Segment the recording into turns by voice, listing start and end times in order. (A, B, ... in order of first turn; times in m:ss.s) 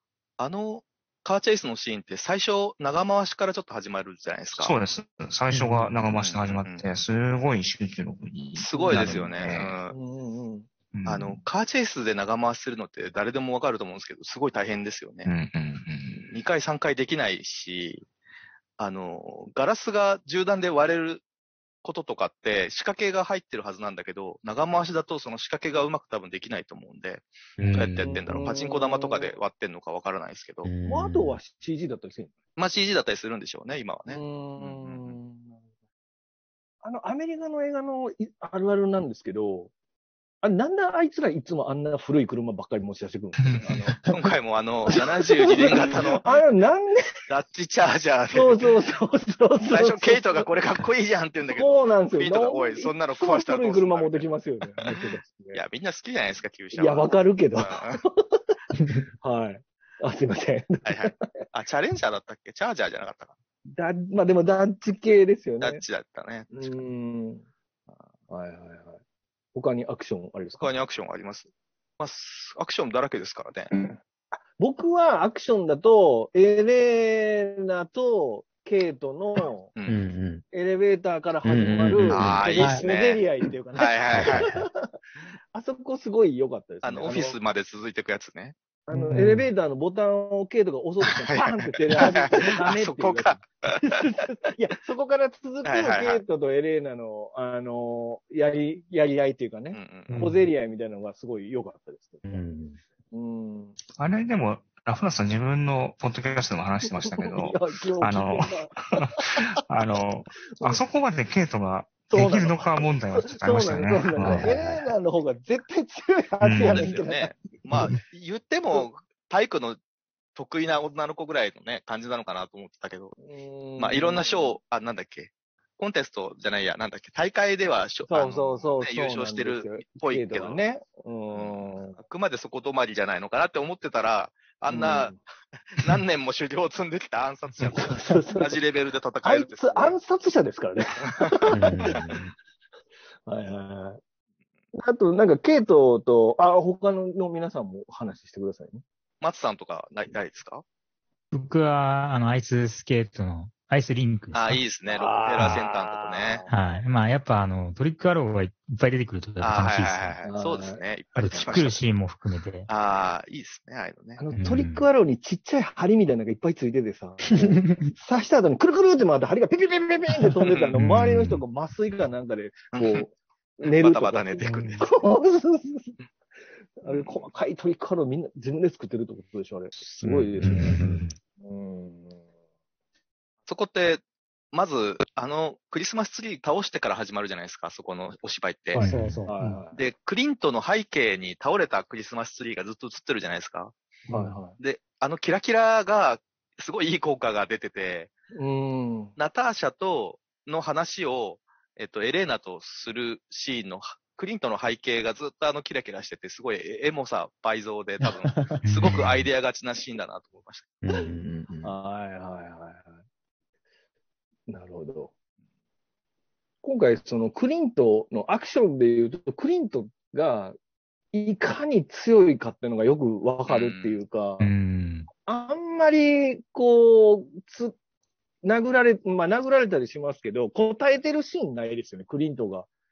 0:00.4-0:04.7 A
0:04.5-0:09.8 B
0:06.1-0:06.8 A
0:08.6-0:09.9 A
0:08.7-0:09.2 C
0:09.9-0:10.7 C
0:10.9-0:11.4 B
0:11.0-0:15.3 A
0:15.2-0:16.3 B
0:16.3-0:18.0 A
0:18.8-0:21.2 A
0:21.8-0:30.7 A
0:27.6-0:28.2 D
0:28.0-0:29.3 C
0:30.6-0:31.4 D
0:30.9-0:32.3 C
0:32.6-0:35.2 A
0:34.1-0:35.6 C
0:36.8-0:39.7 C
0:40.4-0:44.0 C
0:43.4-0:44.0 B
0:44.1-0:46.2 A
0:44.9-0:47.2 C
0:47.3-0:48.7 A
0:48.3-0:50.5 C
0:49.7-0:54.3 A
0:51.5-0:55.6 C
0:55.5-0:58.0 A
0:56.7-0:58.6 C
0:59.2-1:01.3 C
1:00.8-1:03.3 A
1:03.7-1:05.8 C
1:05.6-1:06.7 A
1:06.5-1:07.4 C
1:08.3-1:09.0 C
1:09.5-1:10.7 C
1:10.6-1:13.7 A
1:14.6-1:19.7 C
1:19.8-1:20.4 D
1:20.5-1:24.9 C
1:21.4-1:22.6 D
1:22.1-1:23.2 A
1:22.6-1:22.8 E
1:23.8-1:24.5 A
1:24.1-1:24.7 D
1:25.5-1:27.4 C
1:26.8-1:28.5 A
1:28.9-1:42.4 C
1:28.9-1:29.5 E
1:31.3-1:33.7 A
1:35.6-1:36.2 A
1:39.7-1:40.2 A
1:40.1-1:40.4 D
1:42.2-1:42.8 D
1:43.1-1:43.8 C
1:44.0-1:54.5 B
1:47.0-1:49.4 C
1:52.1-1:57.4 C
1:54.2-1:54.9 D
1:56.4-1:56.9 B
1:56.6-1:59.8 A
2:00.4-2:03.2 A
2:03.2-2:04.6 C
2:03.8-2:10.6 A
2:08.1-2:12.0 C
2:11.3-2:15.2 A
2:14.7-2:15.2 C
2:15.7-2:20.0 A
2:17.6-2:18.6 C
2:19.2-2:22.1 C
2:21.5-2:22.3 D
2:23.2-2:24.0 C
2:24.7-2:28.8 C
2:29.2-2:30.6 A
2:31.3-2:34.6 F
2:34.3-2:36.4 A
2:34.9-2:36.6 C
2:36.5-2:40.2 F
2:39.4-2:41.8 A
2:40.2-2:40.8 C
2:41.2-2:42.7 F
2:42.7-2:44.2 A
2:44.2-2:55.9 C
2:44.3-2:44.9 F
2:50.5-2:50.7 A
2:50.8-2:51.4 F
2:52.7-2:53.0 A
2:53.7-2:54.8 A
2:54.4-2:54.8 E
2:56.8-3:00.8 C
2:56.8-2:57.3 A
3:00.0-3:01.1 D
3:01.4-3:02.2 C
3:03.5-3:04.0 A
3:04.5-3:08.8 A
3:08.8-3:09.1 D
3:08.8-3:09.6 E
3:09.3-3:09.8 C
3:09.7-3:13.7 A
3:14.1-3:14.6 C
3:14.6-3:18.1 A
3:18.3-3:19.1 C
3:19.2-3:30.7 A
3:28.6-3:29.3 F
3:30.8-3:31.7 D
3:31.6-3:32.8 C
3:34.5-3:35.1 C
3:36.6-3:40.6 C
3:41.1-3:44.5 C
3:43.5-3:43.9 A
3:44.4-3:45.1 F
3:45.2-3:47.7 C
3:48.4-3:52.7 C